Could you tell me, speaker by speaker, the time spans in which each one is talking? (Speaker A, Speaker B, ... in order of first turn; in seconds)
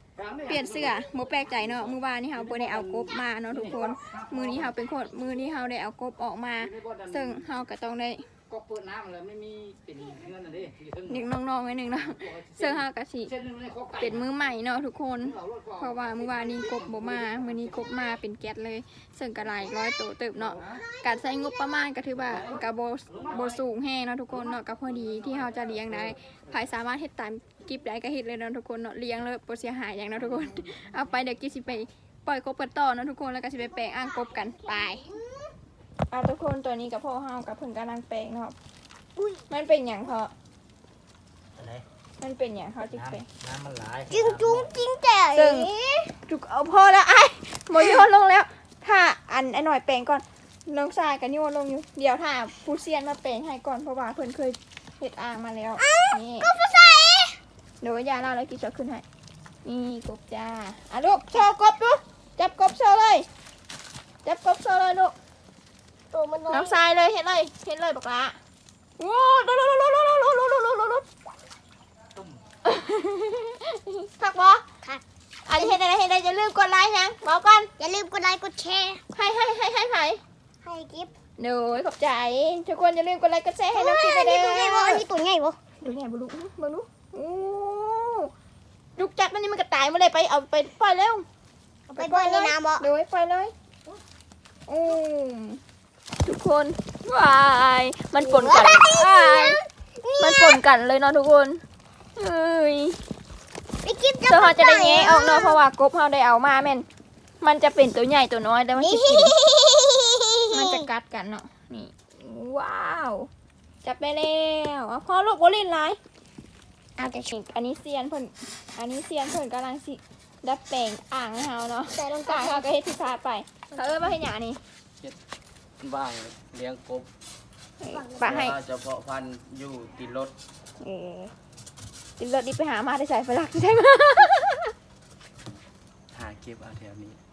Speaker A: 0.2-1.1, 1.6-4.8, 6.6-7.5, 8.5-11.3, 12.2-14.2, 15.3-17.9, 22.2-23.6, 41.6-41.9, 42.9-44.7
Speaker B: 0.5-8.3, 11.1-13.3, 14.0-35.0, 36.1-38.5, 39.5-40.3, 42.2-43.3, 45.3-45.7, 46.2-56.5, 57.8-59.0, 59.6-63.3, 64.2-65.2, 66.5-68.4, 69.0-71.0, 72.6-74.6, 75.5-77.7, 79.1-80.2, 81.4-85.0, 85.8-88.3, 89.0-91.2, 92.0-93.5, 94.7-95.6, 96.2-99.6, 100.2-101.6, 102.2-103.0, 104.3-106.9, 107.4-109.3, 110.5-113.3, 113.8-116.0, 117.3-124.6, 127.8-128.6, 130.8-131.3, 132.2-134.7
Speaker C: 20.7-21.8, 33.6-35.5, 39.2-39.5, 44.1-46.1, 47.8-48.0, 55.8-57.4, 66.1-66.8, 77.8-79.0, 80.6-81.1, 83.7-85.6, 91.9-92.9, 98.2-100.6, 103.8-105.6, 108.8-110.9, 117.0-117.3, 121.9-122.7, 123.7-124.0, 127.9-128.4
Speaker D: 125.8-127.1, 128.2-130.3, 136.1-137.2